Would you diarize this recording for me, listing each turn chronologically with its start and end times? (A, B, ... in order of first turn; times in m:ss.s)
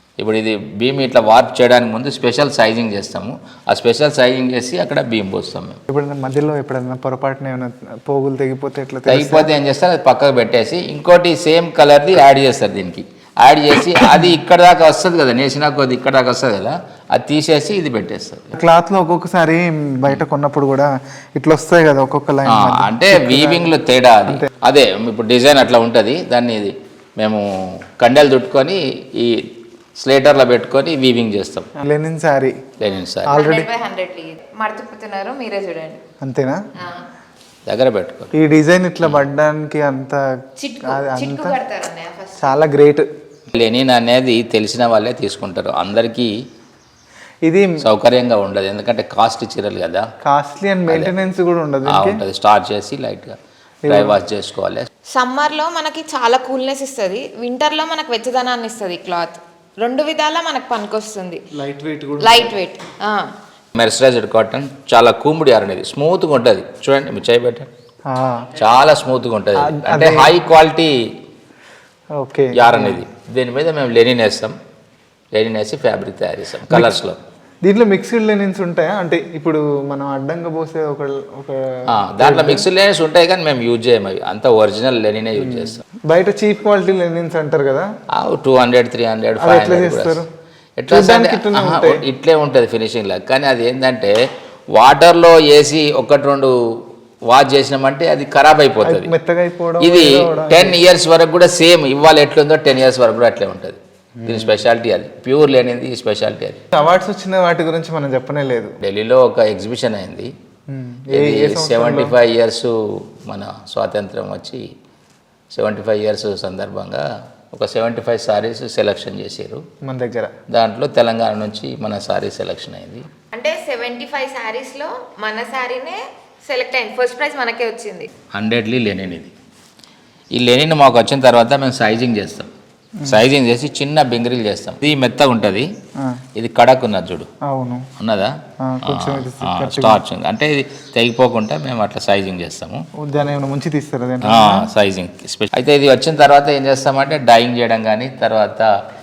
0:00.2-0:05.8 A
0:05.9-0:09.5 B
0:09.1-0:18.5 A
0:14.0-0:14.3 B
0:18.5-0:23.7 B
0:22.4-0:27.4 A
0:28.0-0:29.3 A
0:30.0-0:31.7 A
0:31.8-0:32.5 B
0:32.8-0:33.4 A
0:33.2-0:33.7 B
0:33.3-0:36.0 C
0:36.2-0:36.6 B
0:37.7-0:38.3 A
0:38.3-0:40.2 B
0:40.6-0:42.6 C
0:40.8-0:41.6 B
0:42.4-0:43.1 B
0:43.5-0:46.3 A
0:47.4-0:47.7 B
0:47.8-0:50.0 A
0:50.2-0:52.2 B
0:51.9-0:54.9 A
0:53.8-0:54.2 B
0:55.1-1:01.4 C
1:01.5-1:02.5 B
1:02.2-1:03.2 C
1:03.7-1:07.7 A
1:08.1-1:08.5 B
1:08.6-1:10.9 A
1:09.6-1:10.3 B
1:12.2-1:13.0 B
1:12.5-1:14.5 A
1:15.3-1:17.2 A
1:16.7-1:16.9 B
1:17.6-1:22.7 B
1:21.9-1:25.8 A
1:25.4-1:27.9 B
1:28.2-1:30.2 A
1:29.4-1:30.3 B
1:30.8-1:34.1 A
1:30.9-1:32.0 B
1:34.7-1:36.5 A
1:37.3-1:39.1 A
1:38.8-1:40.8 B
1:39.8-1:46.6 A
1:44.2-1:44.5 B
1:46.7-1:48.7 B
1:48.8-1:50.3 A
1:50.7-1:52.2 B
1:51.1-1:52.7 A
1:53.2-1:54.6 A
1:55.5-1:59.6 A
1:59.8-2:00.3 B
2:00.5-2:03.0 A
2:03.3-2:08.1 C
2:08.3-2:09.3 A
2:10.4-2:12.5 A
2:13.0-2:15.7 A
2:16.4-2:17.3 A
2:17.5-2:17.8 B
2:18.0-2:18.3 A
2:18.6-2:20.0 B
2:18.8-2:22.8 A
2:23.0-2:24.7 B
2:24.2-2:28.7 A